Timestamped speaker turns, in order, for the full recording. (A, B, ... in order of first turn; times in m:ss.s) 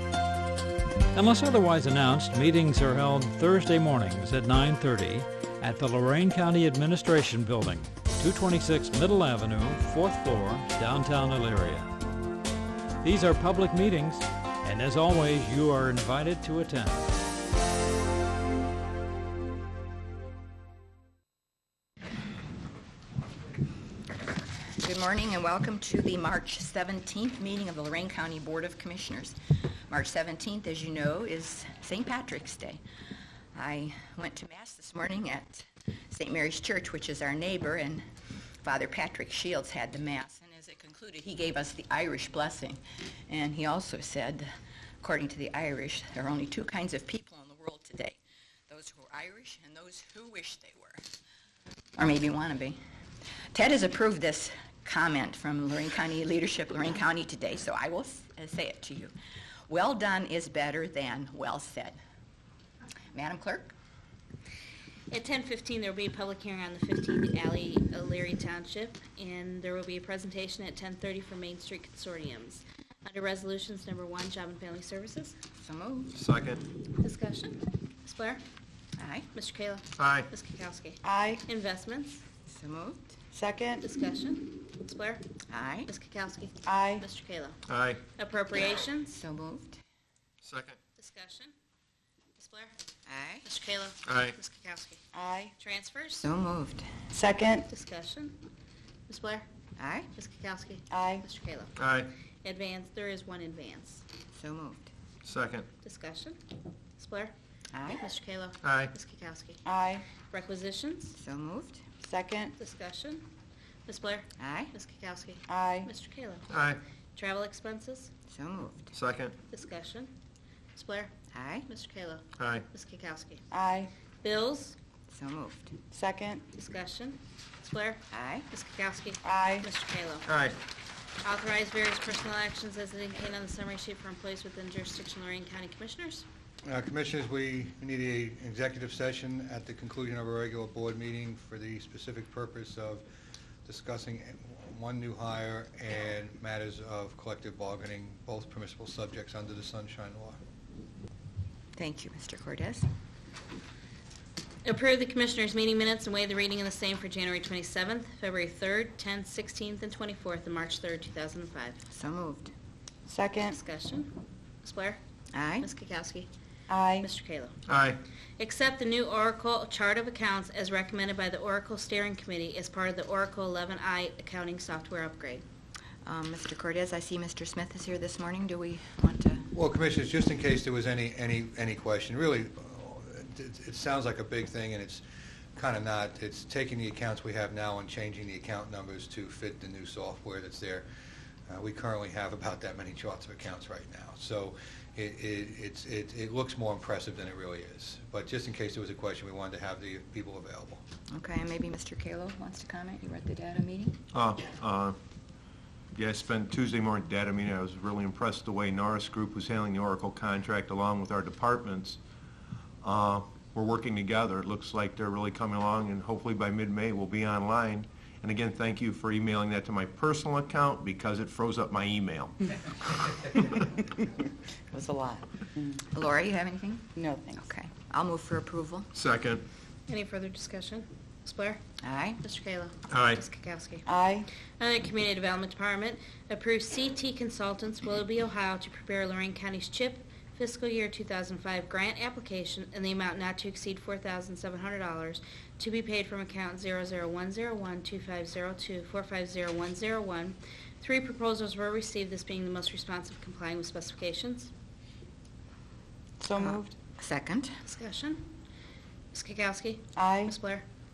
0:01.1-0:11.9 A
0:13.0-0:17.1 A
0:24.8-0:32.8 B
0:33.5-0:38.0 B
0:38.6-0:51.1 B
0:52.0-0:52.8 B
0:53.5-0:59.1 B
0:59.7-1:02.0 B
1:03.1-1:03.7 B
1:05.1-1:15.4 C
1:15.6-1:16.1 B
1:16.1-1:16.6 D
1:17.0-1:18.4 C
1:19.0-1:19.2 B
1:19.3-1:22.2 C
1:20.0-1:20.3 D
1:21.0-1:21.4 E
1:22.5-1:23.2 B
1:23.3-1:23.8 E
1:23.8-1:25.2 C
1:25.5-1:25.9 B
1:25.8-1:27.6 C
1:26.6-1:27.0 E
1:27.7-1:28.0 D
1:28.2-1:29.2 C
1:29.2-1:29.8 B
1:30.4-1:30.8 D
1:31.0-1:31.5 C
1:32.4-1:32.7 C
1:33.0-1:33.4 B
1:33.4-1:35.0 C
1:34.1-1:34.3 D
1:35.1-1:35.5 E
1:35.6-1:36.3 C
1:36.2-1:36.9 B
1:37.1-1:37.7 E
1:37.7-1:38.4 C
1:39.1-1:39.4 C
1:39.8-1:40.1 B
1:40.1-1:41.8 C
1:40.9-1:41.2 E
1:41.8-1:42.1 D
1:42.4-1:44.0 C
1:44.3-1:44.9 B
1:45.2-1:45.6 D
1:45.8-1:46.4 C
1:47.0-1:47.3 C
1:47.9-1:49.6 C
1:48.6-1:48.9 D
1:49.6-1:50.0 E
1:50.3-1:51.2 C
1:51.2-1:51.8 B
1:52.0-1:52.5 E
1:52.6-1:53.2 C
1:53.8-1:56.5 C
1:54.4-1:54.7 B
1:55.5-1:55.9 E
1:56.5-1:56.8 D
1:57.1-1:58.1 C
1:58.3-1:58.8 B
1:58.9-1:59.3 D
1:59.5-2:00.1 C
2:00.7-2:01.1 C
2:01.3-2:01.6 B
2:01.6-2:03.4 C
2:02.4-2:02.6 D
2:03.5-2:03.9 E
2:04.2-2:04.8 C
2:05.1-2:05.7 B
2:05.9-2:06.4 E
2:06.5-2:10.3 C
2:08.1-2:08.4 B
2:09.2-2:09.7 E
2:10.3-2:10.6 D
2:11.2-2:16.2 C
2:16.6-2:23.0 F
2:23.6-2:30.4 F
2:31.8-2:32.9 B
2:34.6-2:41.8 C
2:41.9-2:42.5 B
2:43.1-2:43.6 E
2:43.5-2:45.0 C
2:45.3-2:45.7 B
2:45.6-2:46.3 C
2:46.7-2:47.1 E
2:47.0-2:47.6 C
2:47.7-2:48.0 D
2:48.4-2:55.4 C
2:56.0-2:59.5 B
2:59.5-3:05.0 F
3:05.6-3:10.8 F
3:11.5-3:20.8 F
3:21.1-3:24.0 B
3:24.1-3:25.0 D
3:25.9-3:32.0 D
3:32.8-3:42.3 D
3:44.7-3:45.8 E
3:45.9-3:46.9 B
3:47.0-3:47.5 E
3:47.4-3:48.9 B
3:48.9-3:49.4 D
3:49.9-3:51.6 C
3:51.8-3:52.2 B
3:52.2-3:53.8 C
3:52.9-3:53.2 D
3:53.8-3:54.3 E
3:54.6-4:14.5 C
4:16.2-4:16.8 E
4:16.4-4:17.5 B
4:17.6-4:18.2 C
4:19.1-4:20.6 C
4:20.0-4:20.3 E